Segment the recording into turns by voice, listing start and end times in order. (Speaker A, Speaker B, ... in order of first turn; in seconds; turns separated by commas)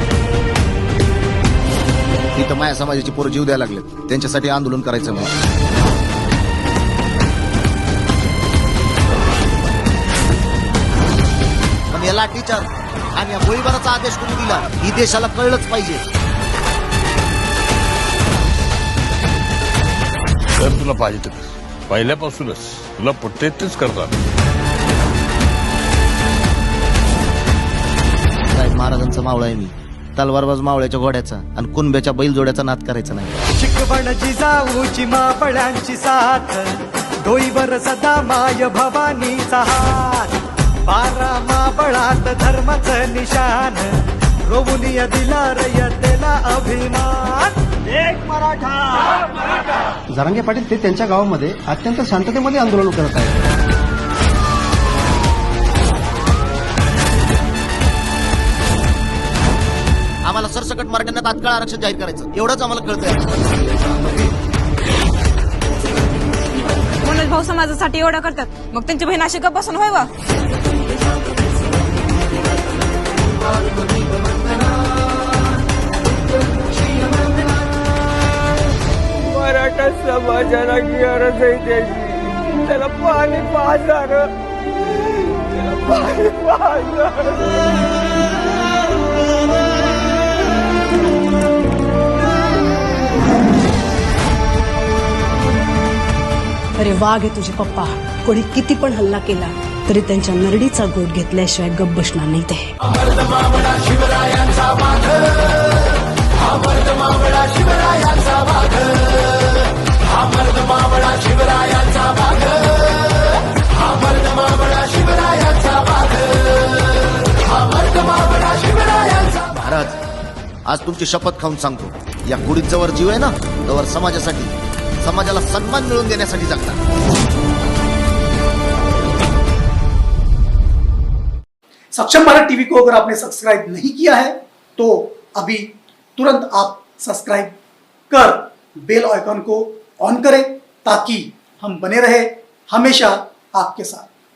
Speaker A: 2.4-5.3, Speaker A: 11.9-16.0, Speaker B: 20.6-24.2, Speaker A: 28.5-33.4, Speaker C: 33.5-49.1, Speaker D: 50.1-53.4, Speaker A: 60.2-63.4, Speaker E: 67.0-70.1, Speaker F: 79.3-84.3, Speaker F: 85.6-87.4, Speaker G: 96.8-102.7, Speaker A: 118.6-120.0, Speaker A: 120.7-126.8, Speaker H: 131.9-137.5, Speaker H: 138.1-144.1